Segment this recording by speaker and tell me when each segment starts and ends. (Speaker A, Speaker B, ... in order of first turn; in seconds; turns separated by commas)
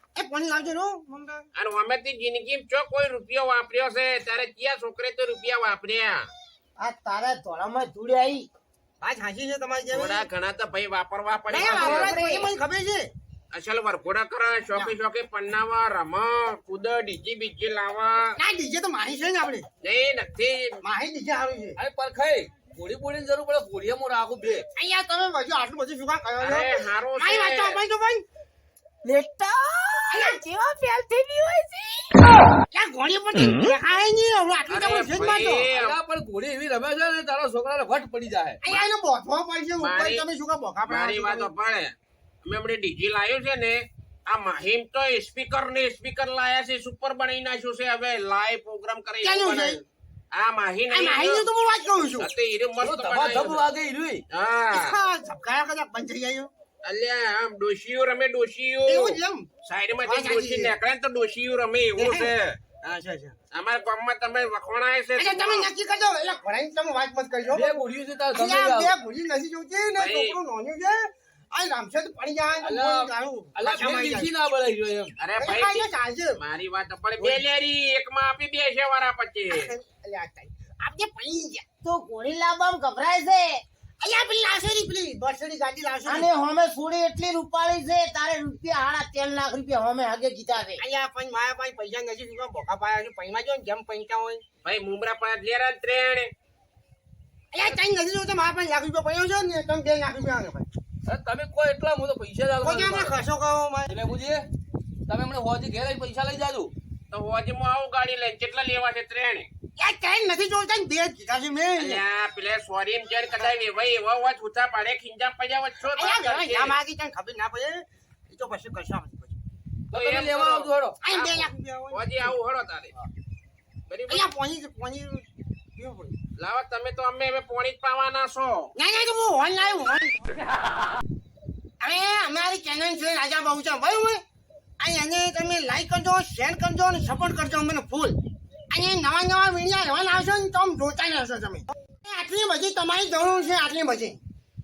Speaker A: 0.2-1.4, Speaker B: 1.6-6.3, Speaker C: 6.8-8.5, Speaker A: 9.0-10.3, Speaker B: 9.9-12.2, Speaker A: 11.5-13.1, Speaker C: 11.6-12.5, Speaker B: 13.5-18.3, Speaker A: 18.4-19.7, Speaker B: 19.8-20.8, Speaker A: 20.8-21.8, Speaker D: 21.8-24.6, Speaker A: 24.8-28.2, Speaker B: 26.4-27.8, Speaker C: 29.0-32.2, Speaker A: 30.1-30.4, Speaker A: 32.7-35.7, Speaker B: 34.7-36.0, Speaker D: 35.7-38.6, Speaker A: 38.6-41.5, Speaker B: 39.8-40.2, Speaker B: 40.9-41.9, Speaker B: 42.5-49.8, Speaker A: 49.2-49.8, Speaker B: 50.3-51.5, Speaker A: 50.9-52.3, Speaker B: 52.2-53.6, Speaker D: 52.8-54.2, Speaker B: 54.3-55.0, Speaker A: 54.7-56.5, Speaker B: 56.8-62.6, Speaker A: 58.9-59.5, Speaker A: 60.0-60.8, Speaker A: 62.0-63.4, Speaker B: 63.5-65.7, Speaker A: 65.2-67.8, Speaker D: 67.5-68.9, Speaker A: 68.3-74.3, Speaker B: 70.0-70.4, Speaker D: 72.6-75.2, Speaker B: 75.2-79.7, Speaker A: 75.4-76.4, Speaker A: 77.2-77.4, Speaker A: 79.5-81.7, Speaker C: 81.8-83.6, Speaker A: 84.0-86.3, Speaker C: 86.1-90.8, Speaker A: 90.8-94.4, Speaker B: 94.6-96.3, Speaker A: 97.5-100.7, Speaker D: 101.1-103.1, Speaker A: 102.6-104.0, Speaker D: 103.9-104.5, Speaker D: 105.1-106.7, Speaker B: 107.1-109.5, Speaker A: 109.8-112.0, Speaker B: 111.8-116.8, Speaker A: 115.9-119.4, Speaker D: 119.9-121.0, Speaker B: 119.9-122.9, Speaker A: 121.0-122.4, Speaker B: 123.9-124.2, Speaker A: 124.1-126.2, Speaker B: 126.4-128.7, Speaker A: 128.8-130.2, Speaker A: 131.8-134.2, Speaker A: 134.8-138.2, Speaker A: 138.7-144.2